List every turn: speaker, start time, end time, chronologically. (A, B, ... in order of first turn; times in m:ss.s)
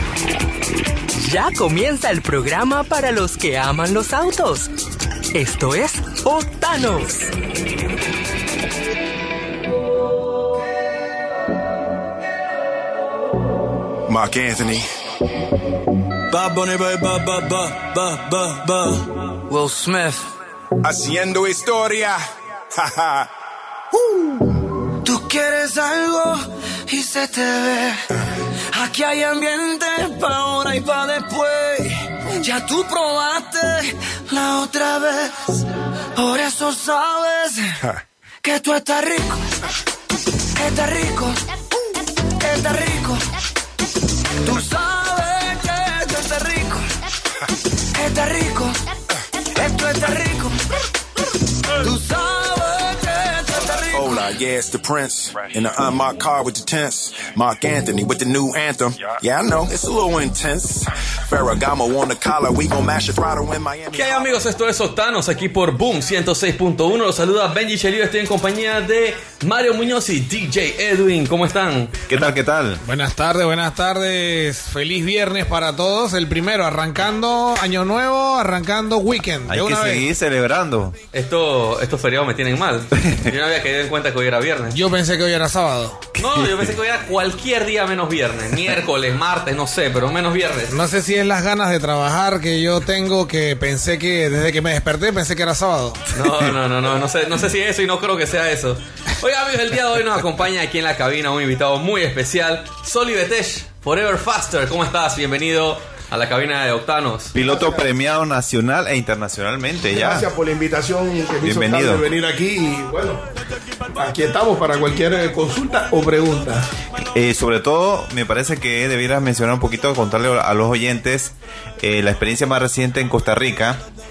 0:01.2-0:04.7 A
0:05.3-0:07.3 A
0:14.1-0:14.9 B
0:16.3-0:19.0 B
0:19.5-0:20.3 C
0:20.8-0:22.2 B
0:22.8-0:23.3 B
0:25.0-0:28.0 C
0:28.7-0:35.6 C
0:36.2-0:37.8 C
0:38.4-0:39.4 C
0:40.6-0:41.4 C
0:42.4-0:43.2 C
0:44.4-0:46.9 C
0:47.9-0:48.8 C
0:49.6-0:50.6 C
0:51.8-0:54.2 C
0:53.9-1:04.3 B
1:03.9-1:12.0 D
1:12.1-1:12.8 E
1:12.8-1:20.1 F
1:19.5-1:21.0 E
1:21.1-1:24.8 D
1:23.0-1:23.3 E
1:24.7-1:26.0 F
1:26.2-1:26.7 E
1:26.2-1:30.8 D
1:30.7-1:36.0 F
1:36.1-1:47.3 D
1:47.3-1:50.3 E
1:47.4-1:47.9 G
1:49.9-1:53.2 G
1:51.4-1:52.0 E
1:54.0-1:56.7 G
1:57.1-2:03.8 E